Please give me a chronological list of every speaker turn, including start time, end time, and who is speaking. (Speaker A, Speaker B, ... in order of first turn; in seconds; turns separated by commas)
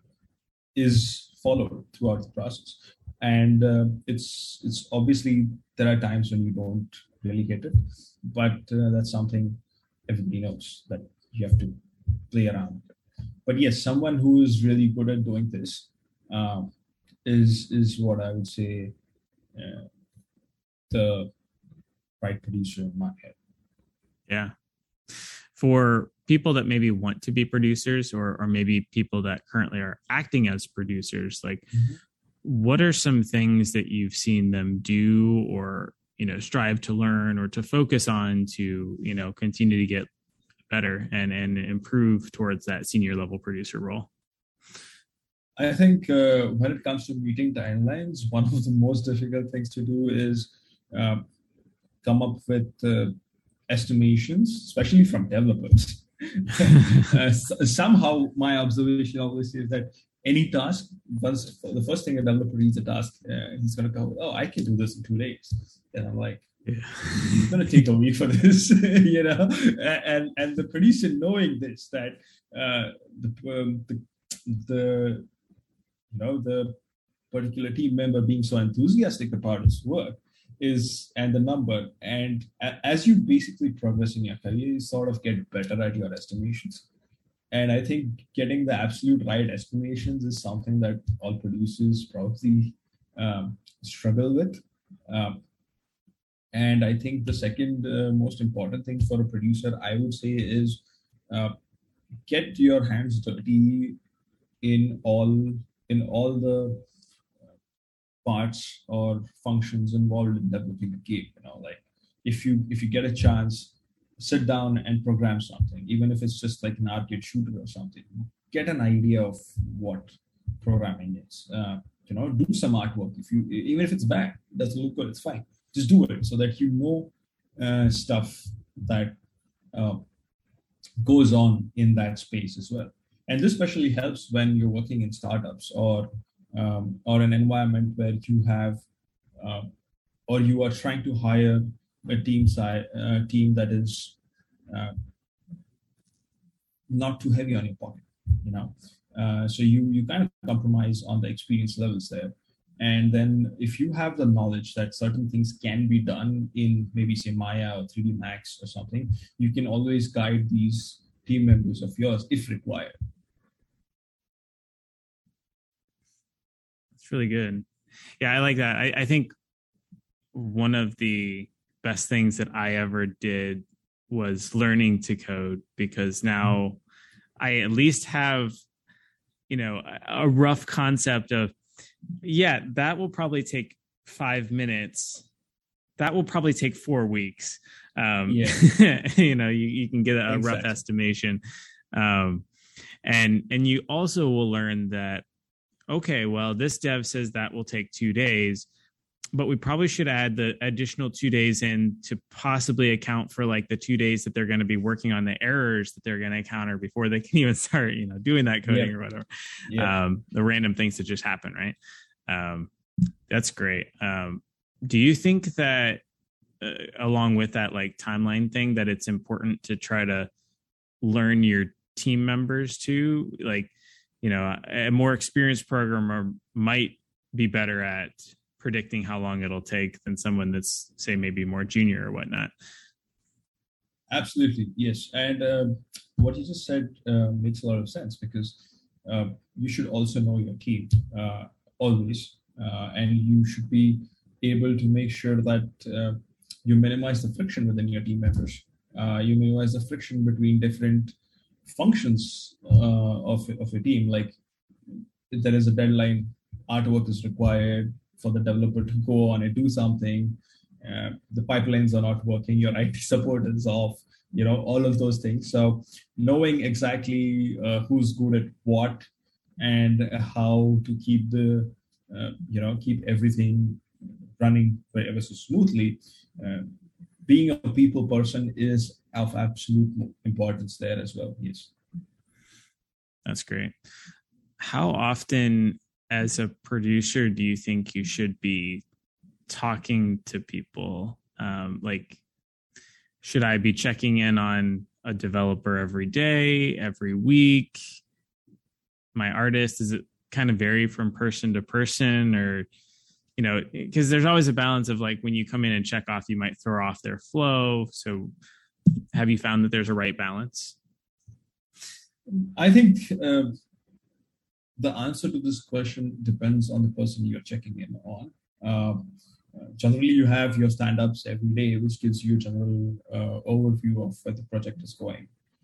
Speaker A: 0.7-12.9, Speaker A: 13.4-16.7, Speaker A: 17.2-18.9, Speaker A: 19.5-19.9, Speaker A: 20.9-21.3, Speaker A: 22.2-23.4, Speaker B: 24.3-24.5, Speaker B: 25.5-31.7, Speaker B: 32.4-40.1, Speaker B: 40.7-44.1, Speaker A: 45.6-51.2, Speaker A: 52.0-53.2, Speaker A: 53.7-66.5, Speaker B: 66.7-67.5, Speaker A: 67.1-75.3, Speaker A: 76.1-76.8, Speaker A: 77.3-86.8, Speaker A: 87.5-95.4, Speaker A: 96.5-101.5, Speaker A: 102.3-104.0, Speaker A: 104.6-106.8, Speaker A: 108.2-129.2, Speaker A: 129.7-130.0, Speaker A: 131.0-138.8, Speaker A: 139.4-139.7, Speaker A: 140.3-144.2, Speaker A: 144.7-144.9, Speaker A: 146.9-162.9, Speaker B: 167.0-167.7, Speaker B: 168.2-169.3, Speaker B: 170.3-176.8, Speaker B: 177.4-178.6, Speaker B: 179.5-181.5, Speaker B: 182.2-185.2, Speaker B: 186.0-191.4, Speaker A: 188.3-188.6, Speaker A: 190.3-190.8, Speaker B: 191.9-192.4, Speaker B: 193.0-195.2, Speaker B: 195.9-198.7, Speaker B: 199.3-211.8, Speaker A: 208.7-208.9, Speaker A: 209.7-209.9, Speaker B: 212.3-212.7, Speaker B: 213.3-216.0, Speaker B: 216.6-220.3, Speaker B: 221.0-223.7, Speaker B: 224.2-232.5, Speaker A: 234.1-251.1, Speaker A: 251.7-254.4, Speaker A: 255.3-269.1, Speaker A: 269.6-273.8, Speaker A: 274.4-281.7, Speaker B: 283.2-283.7, Speaker B: 284.6-288.8, Speaker B: 289.5-292.2, Speaker B: 293.2-297.8, Speaker B: 299.1-302.7, Speaker B: 303.4-308.3, Speaker B: 309.1-310.8, Speaker A: 312.3-313.5, Speaker A: 314.8-325.3